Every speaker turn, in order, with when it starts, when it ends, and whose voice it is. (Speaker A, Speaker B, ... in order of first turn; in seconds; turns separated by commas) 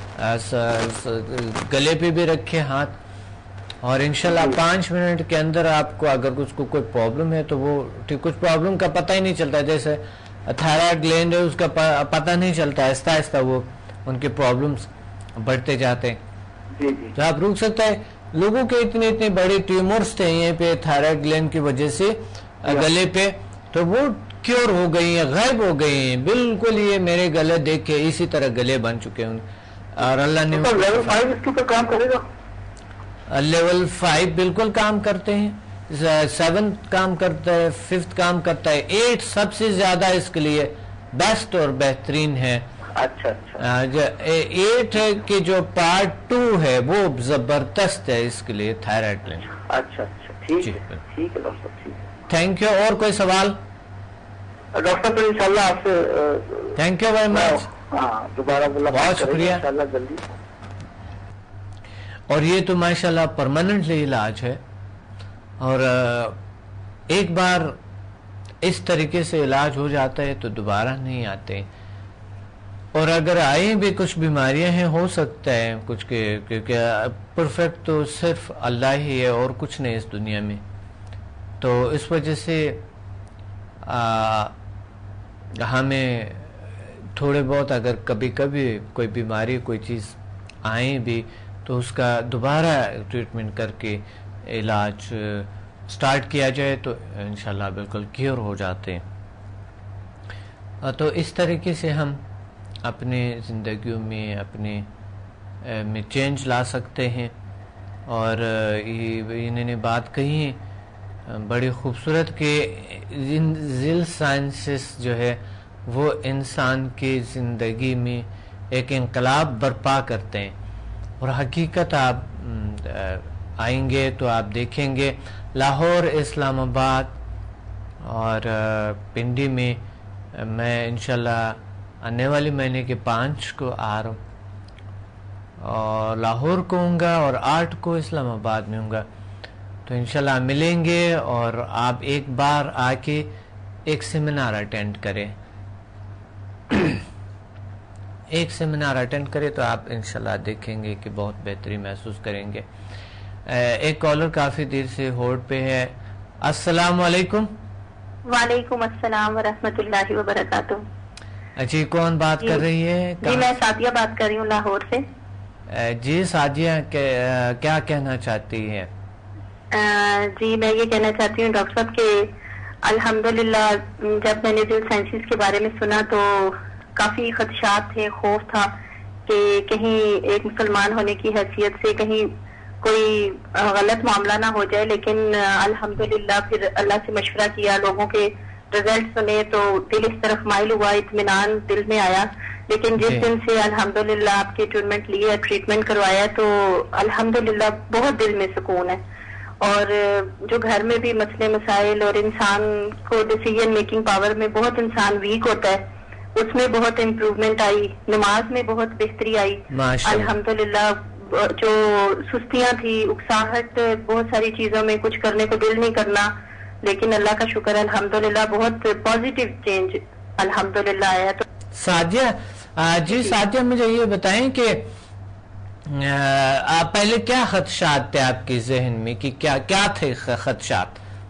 Speaker A: 0.2-3.0, Speaker A: 3.8-16.2, Speaker B: 4.2-4.6, Speaker B: 16.8-17.1, Speaker A: 17.2-31.2, Speaker B: 30.5-32.2, Speaker A: 33.3-42.7, Speaker B: 43.0-43.6, Speaker A: 43.6-49.5, Speaker B: 49.6-52.1, Speaker A: 50.6-51.0, Speaker A: 52.3-53.6, Speaker B: 54.7-56.8, Speaker A: 56.8-57.7, Speaker B: 57.3-60.2, Speaker A: 58.9-59.6, Speaker A: 62.3-64.6, Speaker A: 65.6-66.4, Speaker A: 67.1-67.8, Speaker A: 68.6-71.7, Speaker A: 73.0-80.6, Speaker A: 81.6-82.8, Speaker A: 83.8-84.5, Speaker A: 85.6-99.0, Speaker A: 100.8-102.2, Speaker A: 102.8-104.9, Speaker A: 105.6-107.3, Speaker A: 108.1-110.6, Speaker A: 111.3-120.6, Speaker A: 121.2-127.2, Speaker A: 128.0-129.8, Speaker A: 130.3-134.2, Speaker A: 135.6-139.1, Speaker A: 139.9-143.3, Speaker A: 143.9-145.3, Speaker A: 146.7-147.0, Speaker A: 148.3-152.7, Speaker A: 153.5-157.5, Speaker C: 158.3-160.8, Speaker A: 161.6-163.5, Speaker C: 163.2-165.0, Speaker A: 165.7-168.9, Speaker C: 169.7-172.3, Speaker C: 172.8-178.7, Speaker C: 179.3-182.3, Speaker C: 182.8-199.0, Speaker A: 193.0-193.3, Speaker C: 199.6-205.8, Speaker C: 206.3-216.3, Speaker A: 209.7-210.3, Speaker C: 216.8-221.4, Speaker A: 221.8-224.8, Speaker C: 223.1-223.3, Speaker A: 225.9-231.0